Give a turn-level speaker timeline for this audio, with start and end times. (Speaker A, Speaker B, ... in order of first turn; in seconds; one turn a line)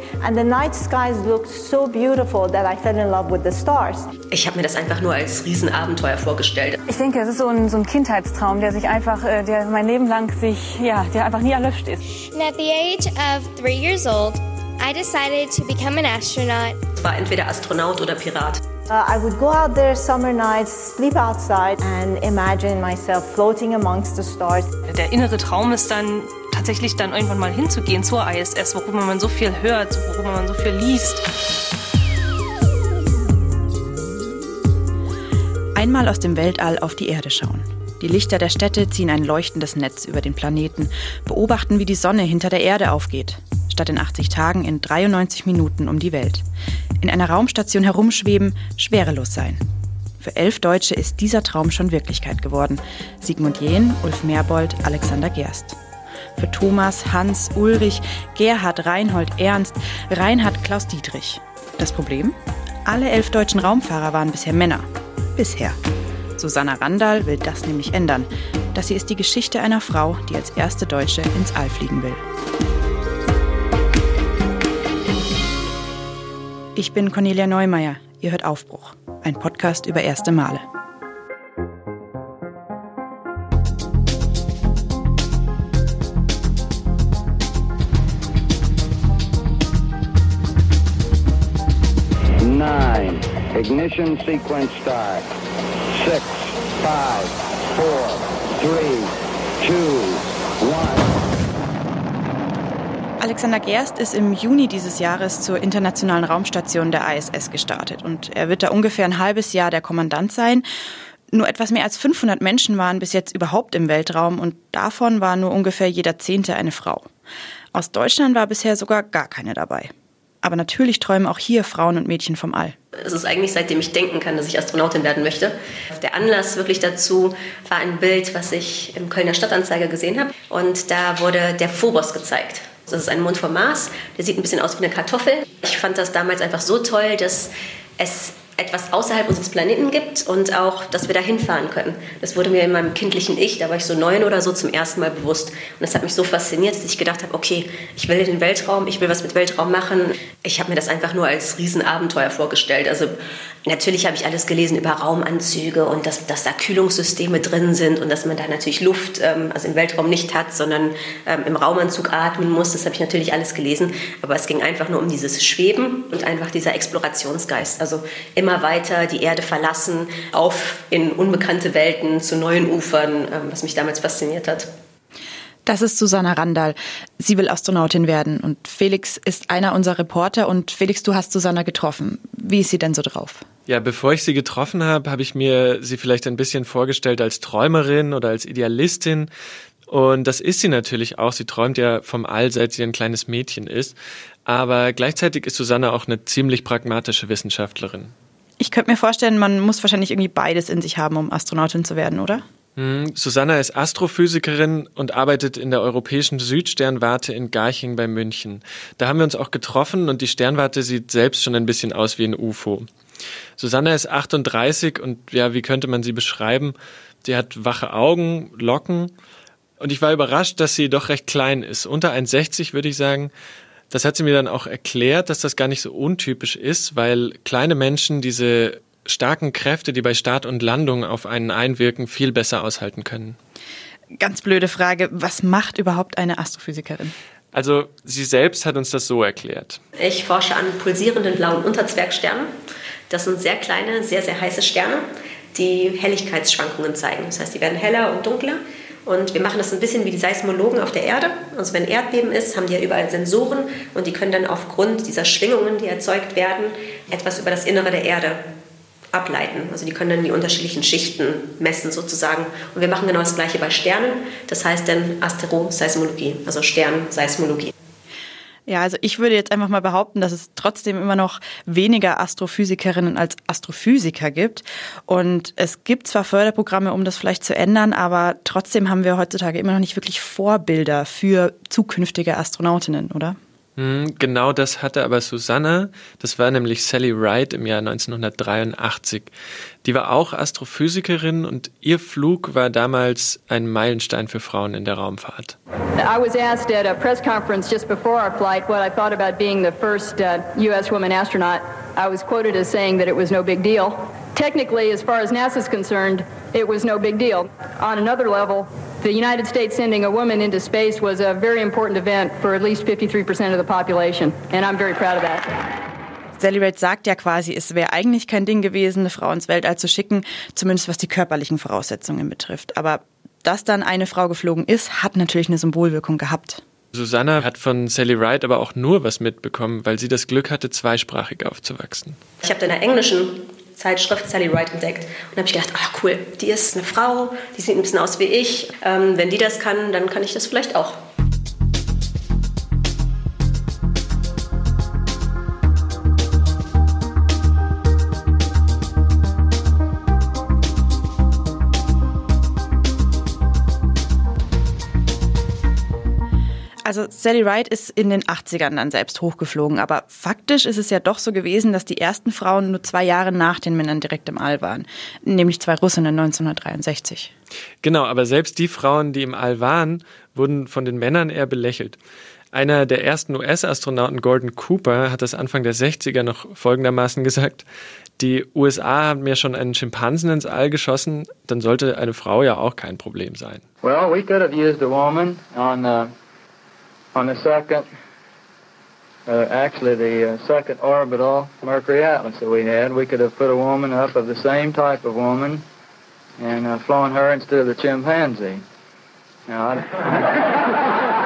Speaker A: 0.2-4.0
Speaker B: 4.3-6.8
Speaker C: 6.8-12.0
Speaker D: 12.3-16.8
Speaker B: 17.0-18.6
Speaker A: 18.9-24.7
Speaker E: 24.9-31.2
Speaker F: 35.7-46.4
Speaker F: 47.0-49.6
Speaker F: 50.2-55.8
Speaker F: 56.4-65.8
Speaker F: 66.4-72.2
Speaker F: 76.8-80.6
Speaker G: 92.4-95.3
Speaker G: 95.9-101.2
Speaker F: 103.2-110.6
Speaker F: 111.3-117.1
Speaker F: 117.7-119.9
Speaker F: 120.4-122.7
Speaker B: 123.0-153.1
Speaker B: 153.7-174.7
Speaker F: 175.7-183.4
Speaker H: 183.7-189.3
Speaker H: 189.9-198.1
Speaker F: 198.6-202.4
Speaker H: 202.8-212.9
Speaker H: 213.6-219.1
Speaker H: 219.8-223.3
Speaker H: 223.9-233.4
Speaker F: 234.2-237.1
Speaker H: 237.5-239.8
Speaker B: 240.0-242.5
Speaker B: 243.1-258.4
Speaker B: 259.1-267.7
Speaker F: 268.7-283.4
Speaker H: 283.8-289.3
Speaker H: 289.8-295.6
Speaker I: 296.0-315.5
Speaker F: 316.4-326.6
Speaker H: 326.9-332.2
Speaker B: 332.4-341.0
Speaker F: 356.8-367.3
Speaker H: 367.8-372.0
Speaker H: 372.5-377.6
Speaker H: 378.2-383.6
Speaker J: 383.8-386.1
Speaker J: 387.1-387.9
Speaker J: 389.3-395.6
Speaker J: 396.4-398.6
Speaker J: 399.5-400.4